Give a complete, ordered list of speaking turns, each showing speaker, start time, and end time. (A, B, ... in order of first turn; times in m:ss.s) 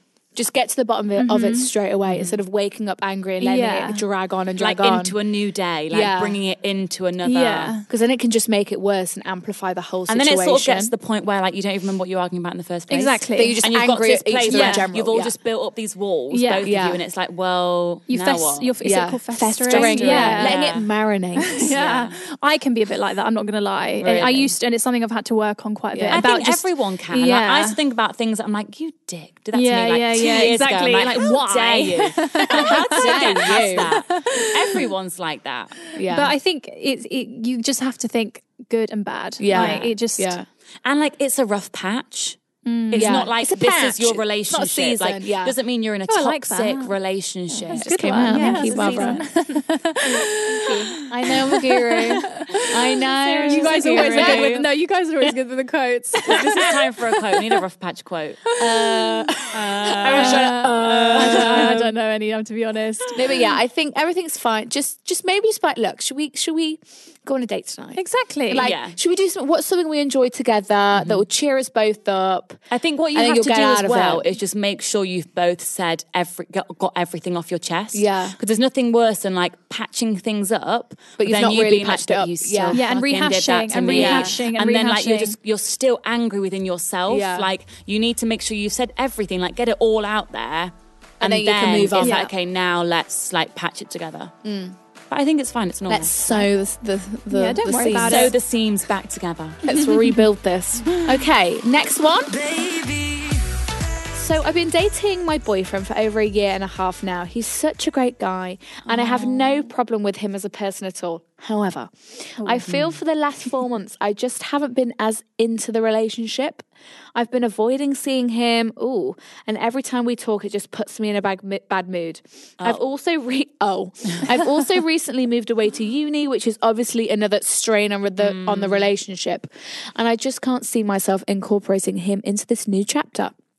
0:00.3-0:05.2 A
0:01.2-0:01.7 B
0:02.0-0:02.4 C
0:03.4-0:04.0 B
0:04.6-0:07.8 C
0:05.9-0:06.4 A
0:07.2-0:07.8 B
0:07.9-0:10.9 A
0:10.1-0:18.7 C
0:12.9-0:13.6 B
0:13.3-0:15.3 A
0:14.5-0:14.9 B
0:16.3-0:16.7 B
0:16.6-0:17.0 A
0:18.1-0:20.6 B
0:18.8-0:21.7 A
0:19.7-0:20.9 C
0:21.4-0:27.8 B
0:21.6-0:22.1 C
0:24.0-0:24.5 C
0:25.9-0:26.2 A
0:26.1-0:35.8 C
0:29.5-0:34.9 B
0:32.5-0:34.0 A
0:35.9-0:40.4 B
0:35.9-0:36.3 A
0:39.4-0:40.4 A
0:39.5-0:39.9 C
0:40.8-0:42.4 C
0:42.6-0:43.2 B
0:42.9-0:49.2 C
0:43.0-0:45.5 A
0:46.1-0:46.9 B
0:47.5-0:57.6 B
0:47.7-0:49.2 A
0:50.1-0:54.6 A
0:53.2-0:54.6 C
0:56.3-0:58.5 C
0:58.5-0:59.3 B
0:58.6-1:01.8 A
0:59.5-1:01.9 C
1:00.1-1:03.5 B
1:03.1-1:12.6 A
1:07.9-1:08.7 B
1:08.6-1:09.0 C
1:10.9-1:11.2 C
1:12.7-1:34.3 C
1:13.1-1:14.2 A
1:17.9-1:18.4 A
1:21.2-1:22.8 A
1:22.7-1:25.4 B
1:23.9-1:24.3 A
1:27.1-1:27.5 A
1:31.2-1:32.3 A
1:32.0-1:32.3 B
1:34.4-1:34.7 A
1:35.1-1:36.4 C
1:35.9-1:38.3 A
1:37.3-1:38.3 B
1:37.9-1:39.7 C
1:39.6-1:42.4 A
1:39.7-1:40.2 B
1:40.8-1:41.2 C
1:42.3-1:43.4 C
1:44.1-2:13.3 A
1:48.8-1:49.7 C
1:52.4-1:52.6 B
1:52.6-1:53.0 C
2:08.2-2:08.9 C